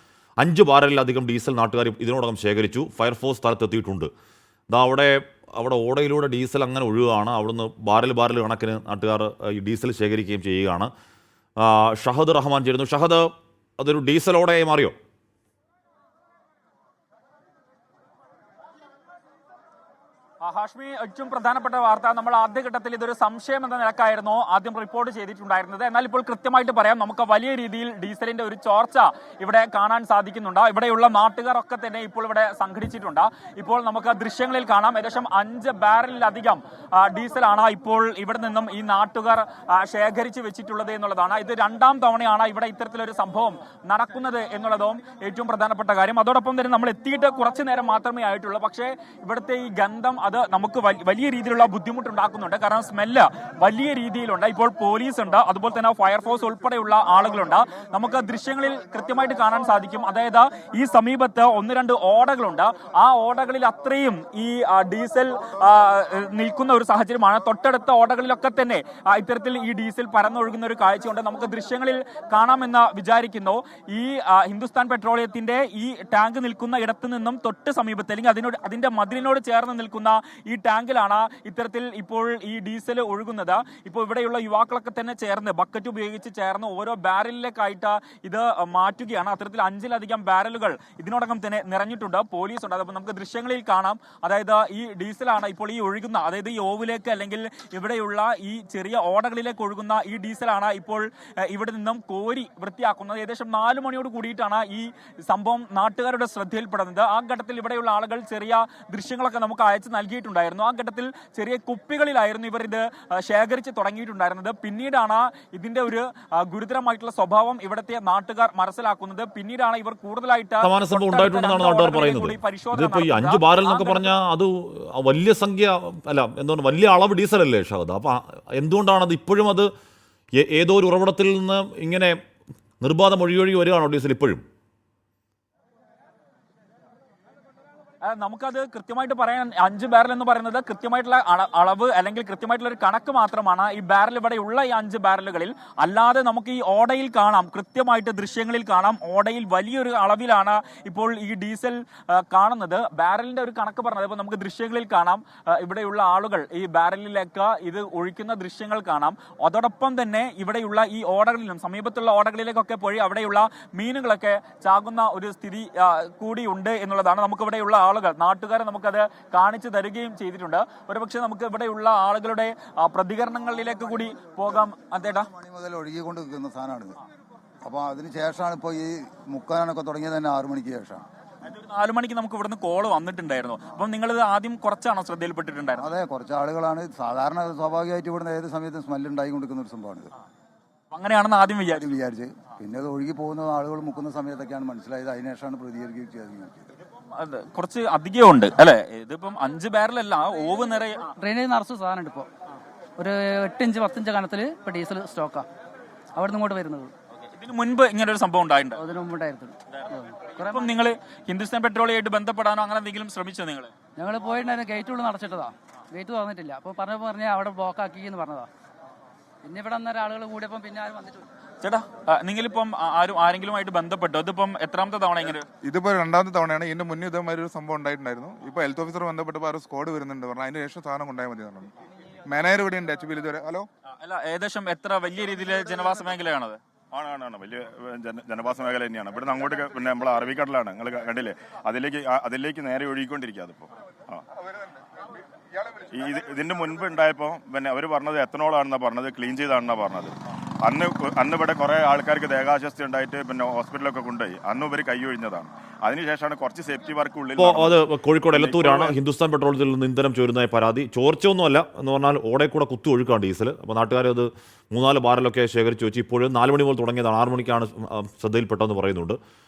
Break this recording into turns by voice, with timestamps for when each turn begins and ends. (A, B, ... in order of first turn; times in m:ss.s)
0:00.4-0:04.1 A
0:04.7-0:10.9 A
0:11.6-0:13.2 A
0:13.8-0:15.0 A
0:20.4-2:04.2 B
2:00.6-2:09.7 A
2:10.4-2:12.2 A
2:12.8-2:14.4 A
2:18.0-2:55.3 B
2:54.2-2:57.0 C
2:57.6-3:01.0 C
3:01.4-3:05.9 B
3:05.7-3:10.1 C
3:10.9-3:11.8 B
3:11.7-3:16.7 C
3:17.1-3:21.1 B
3:21.2-3:22.3 D
3:23.0-3:25.5 D
3:26.1-3:26.9 D
3:27.3-3:28.8 B
3:28.8-3:30.8 D
3:30.4-3:33.7 B
3:34.0-3:38.5 D
3:39.4-3:41.2 D
3:41.6-3:45.5 B
3:45.6-3:51.7 E
3:52.3-3:53.7 E
3:54.0-3:56.6 B
3:56.9-4:04.2 F
4:05.9-4:19.0 F
4:17.4-4:29.2 A